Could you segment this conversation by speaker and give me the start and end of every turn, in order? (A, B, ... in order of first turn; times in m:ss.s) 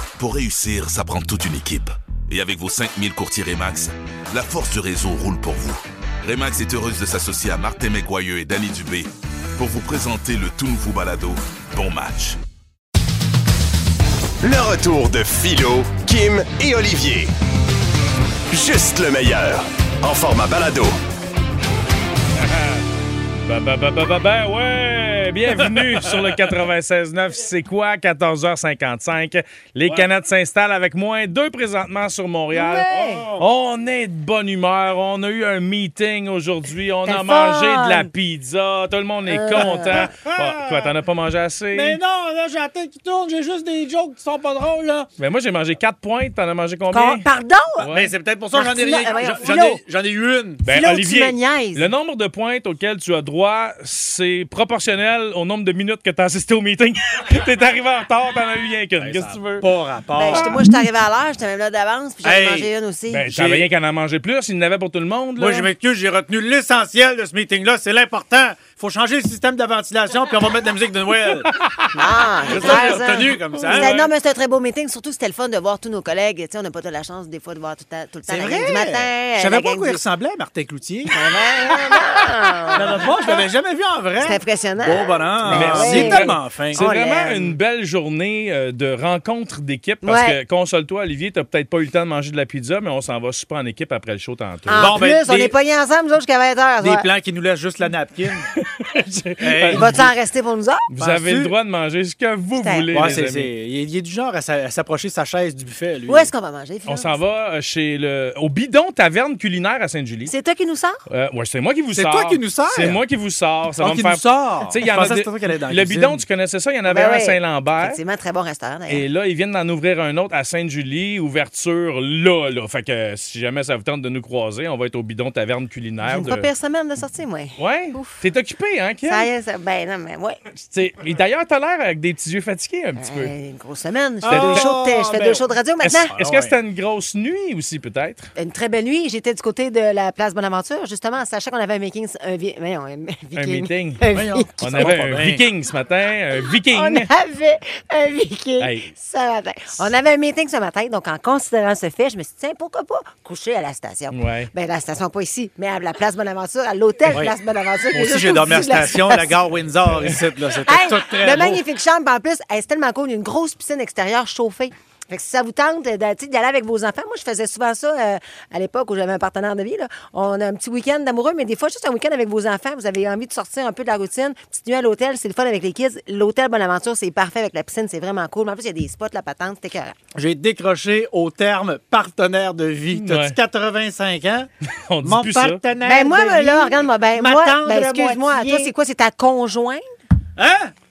0:00.2-0:12.4 A
0:14.4-0:17.3 B
0:18.5-0:21.0 B
0:22.4-0:22.8 C
0:23.4-0:42.0 C
0:25.8-0:26.4 D
0:32.5-0:33.4 D
0:32.9-0:33.2 E
0:37.0-0:38.1 E
0:39.3-0:40.0 E
0:39.6-0:40.9 D
0:41.7-0:45.1 D
0:45.2-0:47.2 C
0:46.9-0:47.9 E
0:47.8-0:48.1 C
0:47.9-0:50.6 D
0:48.5-0:49.8 E
0:50.6-0:59.7 C
0:50.7-0:51.9 E
0:59.0-1:00.6 D
1:00.2-1:03.2 E
1:02.2-1:02.7 D
1:03.1-1:05.7 C
1:03.3-1:03.7 D
1:05.4-1:11.5 D
1:11.9-1:20.0 E
1:12.5-1:14.1 D
1:13.5-1:14.0 C
1:18.3-1:22.0 D
1:21.1-1:23.3 E
1:22.7-1:26.8 D
1:24.2-1:27.5 E
1:25.5-1:34.9 C
1:30.0-1:30.4 E
1:34.7-1:37.1 E
1:34.7-1:35.5 D
1:36.8-1:38.5 D
1:38.8-1:39.9 C
1:39.4-1:40.1 D
1:39.7-1:40.8 E
1:40.9-1:43.5 C
1:41.0-1:41.5 D
1:42.6-1:42.9 E
1:42.9-1:46.3 D
1:46.1-1:47.2 E
1:46.9-1:50.3 C
1:50.2-1:51.0 E
1:51.1-1:58.0 C
1:51.9-1:53.0 D
1:53.8-1:56.2 D
1:56.8-1:59.0 E
1:58.9-2:06.5 C
2:06.0-2:08.2 E
2:07.6-2:09.3 C
2:09.0-2:10.4 E
2:10.6-2:13.3 C
2:13.0-2:16.1 E
2:14.2-2:15.5 D
2:14.3-2:14.7 C
2:15.8-2:18.3 C
2:16.1-2:16.6 D
2:18.4-2:24.9 E
2:23.3-2:24.0 C
2:24.1-2:25.4 D
2:24.6-2:27.1 C
2:26.7-2:39.4 E
2:28.6-2:28.9 C
2:34.1-2:34.5 C
2:37.1-2:37.3 D
2:37.9-2:41.6 D
2:40.6-2:59.9 E
3:00.1-3:04.5 D
3:02.9-3:03.4 C
3:04.8-3:05.6 C
3:05.0-3:08.7 D
3:05.8-3:09.8 E
3:10.4-3:10.7 D